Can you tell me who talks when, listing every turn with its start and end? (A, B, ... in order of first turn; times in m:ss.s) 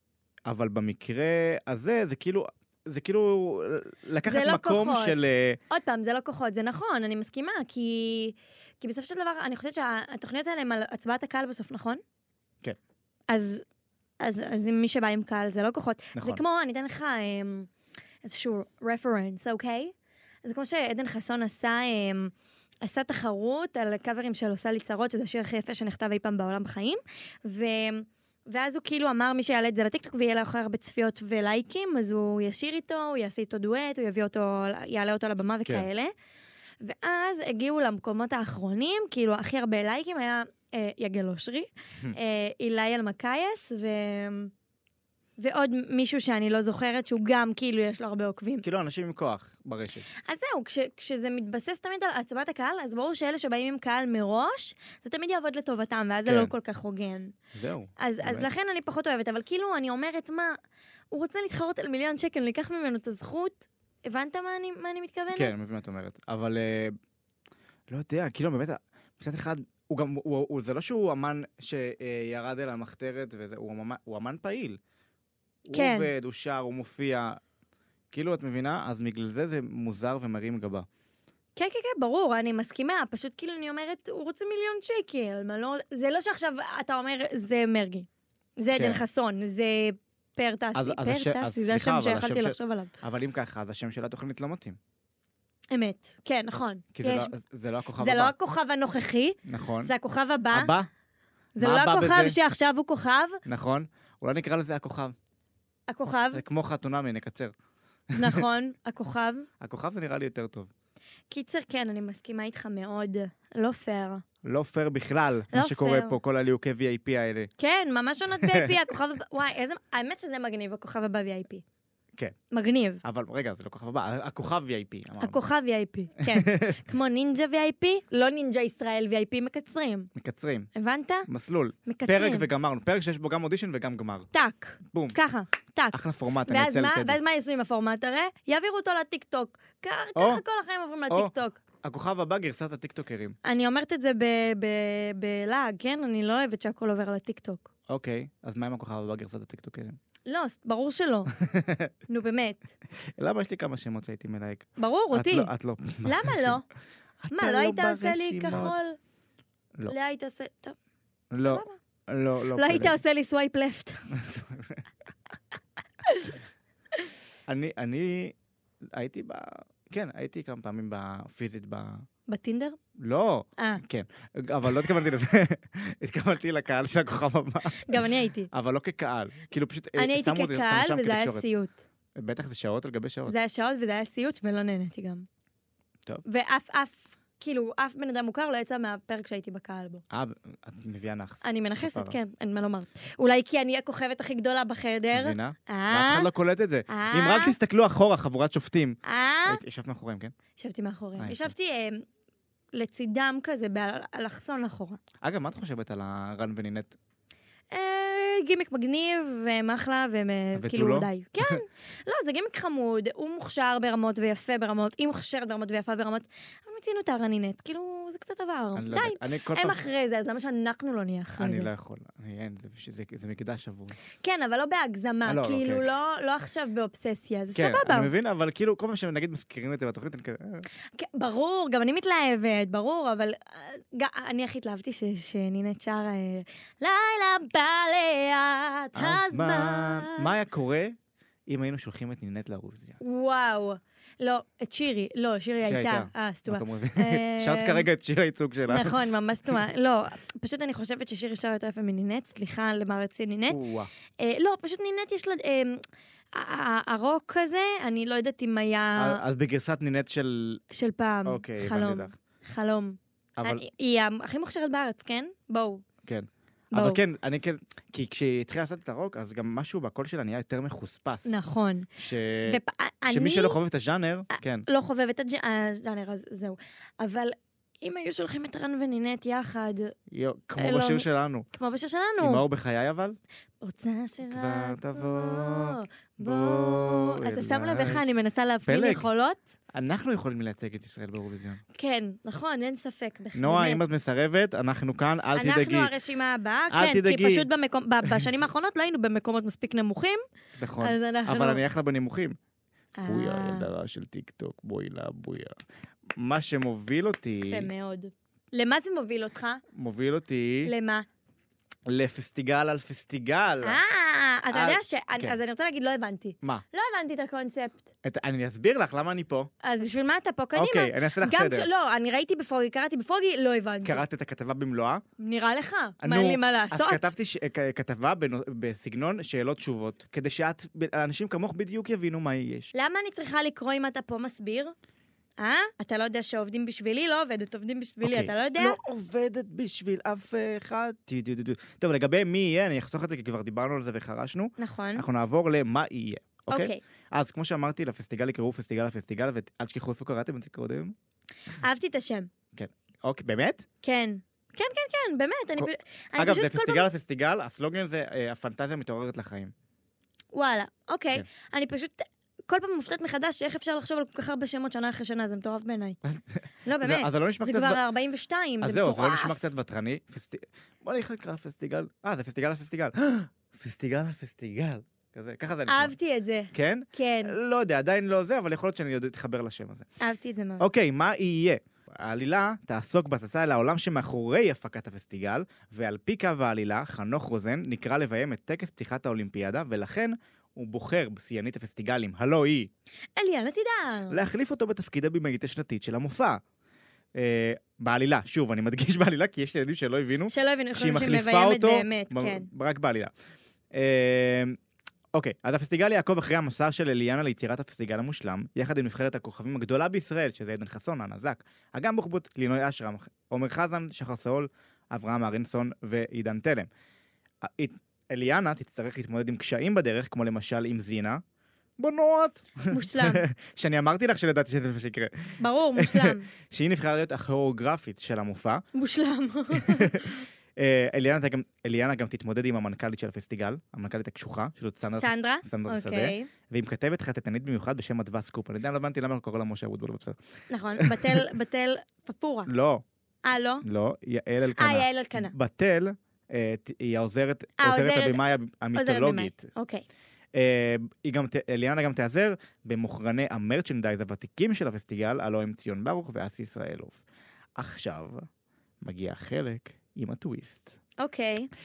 0:00.5-0:05.6 A
0:04.2-0:12.0 B
0:13.3-0:13.6 B
0:14.2-0:17.7 B
0:16.2-0:16.4 A
0:18.2-0:36.1 B
0:36.8-0:44.5 B
0:45.4-0:48.6 B
0:48.6-0:50.1 A
0:50.2-0:57.4 B
0:56.2-0:56.5 A
0:57.5-0:58.5 A
0:58.0-1:00.6 B
1:01.1-1:05.5 B
1:05.3-1:07.0 A
1:07.9-1:14.8 A
1:15.6-1:17.4 A
1:15.7-1:16.1 B
1:18.1-1:20.9 A
1:21.6-1:28.1 B
1:28.6-1:32.9 B
1:28.7-1:29.0 A
1:30.8-1:34.8 A
1:35.7-1:37.3 B
1:36.9-1:38.4 A
1:38.0-1:40.7 B
1:39.4-1:39.9 A
1:40.5-1:40.9 A
1:41.6-1:43.4 B
1:41.6-1:42.4 A
1:43.5-1:45.2 A
1:45.9-1:46.4 B
1:46.3-1:47.5 A
1:48.1-1:48.4 A
1:48.2-1:49.5 B
1:49.6-1:50.7 A
1:51.3-1:54.2 B
1:54.4-1:57.5 A
1:55.5-1:56.2 B
1:57.6-2:01.6 B
1:58.4-1:58.7 A
2:02.5-2:03.0 B
2:03.0-2:05.4 A
2:05.2-2:10.1 B
2:06.2-2:06.8 A
2:10.2-2:10.7 A
2:10.8-2:11.3 B
2:11.3-2:14.3 A
2:11.9-2:12.5 B
2:14.3-2:21.6 B
2:14.8-2:15.2 A
2:15.9-2:17.2 A
2:20.2-2:20.4 A
2:21.1-2:23.4 A
2:23.4-2:27.7 B
2:27.9-2:30.0 A
2:30.2-2:31.3 B
2:31.4-2:31.9 A
2:32.1-2:32.7 B
2:33.2-2:36.6 A
2:34.8-2:35.5 B
2:36.0-2:36.6 B
2:37.2-2:38.8 A
2:37.3-2:39.0 B
2:39.9-2:40.8 B
2:41.3-2:43.0 A
2:41.4-2:41.8 B
2:42.6-2:44.1 B
2:44.1-2:44.8 A
2:46.0-2:46.4 B
2:47.5-2:48.4 A
2:48.9-2:52.1 A
2:52.3-2:52.8 B
2:53.0-2:58.0 A
2:57.8-2:58.5 B
2:58.5-3:01.5 A
3:00.0-3:01.8 B
3:02.2-3:03.3 A
3:03.3-3:05.3 B
3:06.2-3:10.0 B
3:10.1-3:12.2 A
3:11.4-3:16.3 B
3:15.1-3:20.3 A
3:16.9-3:17.6 B
3:19.0-3:19.6 B
3:20.6-3:22.0 B
3:21.2-3:21.5 A
3:22.7-3:25.0 B
3:25.2-3:27.0 A
3:27.7-3:41.7 B
3:30.6-3:31.6 A
3:38.8-3:39.8 A
3:41.4-3:44.0 A
3:44.2-3:48.1 B
3:45.3-3:45.8 A
3:47.6-3:50.7 A
3:50.9-4:00.3 B
3:59.0-4:03.0 A
4:03.0-4:07.9 B
4:05.6-4:09.0 A
4:08.7-4:13.6 B
4:13.5-4:13.9 A
4:14.2-4:19.2 B
4:19.0-4:20.6 A
4:20.7-4:25.8 B
4:21.2-4:22.2 A
4:23.4-4:23.6 A
4:26.0-4:31.4 A
4:26.7-4:27.0 B
4:31.3-4:31.9 B
4:32.0-4:34.7 A
4:32.4-4:33.6 B
4:34.3-4:40.0 B
4:40.1-4:41.5 A
4:40.6-4:42.4 B
4:42.2-4:43.2 A
4:43.6-4:49.4 B
4:44.3-4:48.0 A
4:48.7-4:49.0 A
4:49.7-4:51.6 A
4:51.7-4:53.8 B
4:53.4-4:55.9 A
4:55.4-5:00.2 B
4:56.7-4:57.5 A
5:00.6-5:02.4 A
5:00.8-5:01.6 B
5:03.0-5:03.7 B
5:03.0-5:05.6 A
5:06.2-5:07.7 A
5:07.4-5:09.6 B
5:09.7-5:10.7 A
5:10.6-5:11.1 B
5:11.9-5:13.8 A
5:13.6-5:17.9 B
5:14.5-5:15.4 A
5:18.0-5:19.5 A
5:19.6-5:24.0 B
5:20.6-5:21.7 A
5:23.8-5:25.0 A
5:25.2-5:27.1 B
5:26.0-5:32.7 A
5:32.7-5:34.8 B
5:35.4-5:38.8 B
5:38.0-5:51.0 A
5:44.6-5:45.0 B
5:46.5-5:46.8 B
5:51.5-5:52.3 B
5:52.6-5:53.7 A
5:53.8-5:56.9 B
5:55.6-5:59.5 A
6:00.3-6:06.0 B
6:06.0-6:07.8 A
6:06.6-6:09.4 B
6:08.6-6:16.0 A
6:15.7-6:17.3 B
6:16.5-6:19.9 A
6:20.0-6:20.7 B
6:20.6-6:32.7 A
6:33.2-6:34.2 B
6:34.1-6:36.4 A
6:37.2-6:43.1 A
6:40.3-6:42.5 B
6:43.7-6:44.6 A
6:45.1-6:56.7 A
6:57.4-7:01.2 A
7:01.8-7:08.6 A
7:02.7-7:03.2 B
7:05.4-7:06.3 B
7:08.7-7:10.2 B
7:09.5-7:20.2 A
7:15.0-7:16.3 B
7:20.5-7:22.5 B
7:20.8-7:21.3 A
7:22.5-7:22.8 A
7:23.2-7:23.6 B
7:23.6-7:29.5 A
7:24.6-7:25.3 B
7:27.6-7:28.2 B
7:28.7-7:29.8 B
7:30.3-7:37.0 A
7:37.6-7:38.3 A
7:38.8-7:40.8 A
7:41.0-7:41.5 B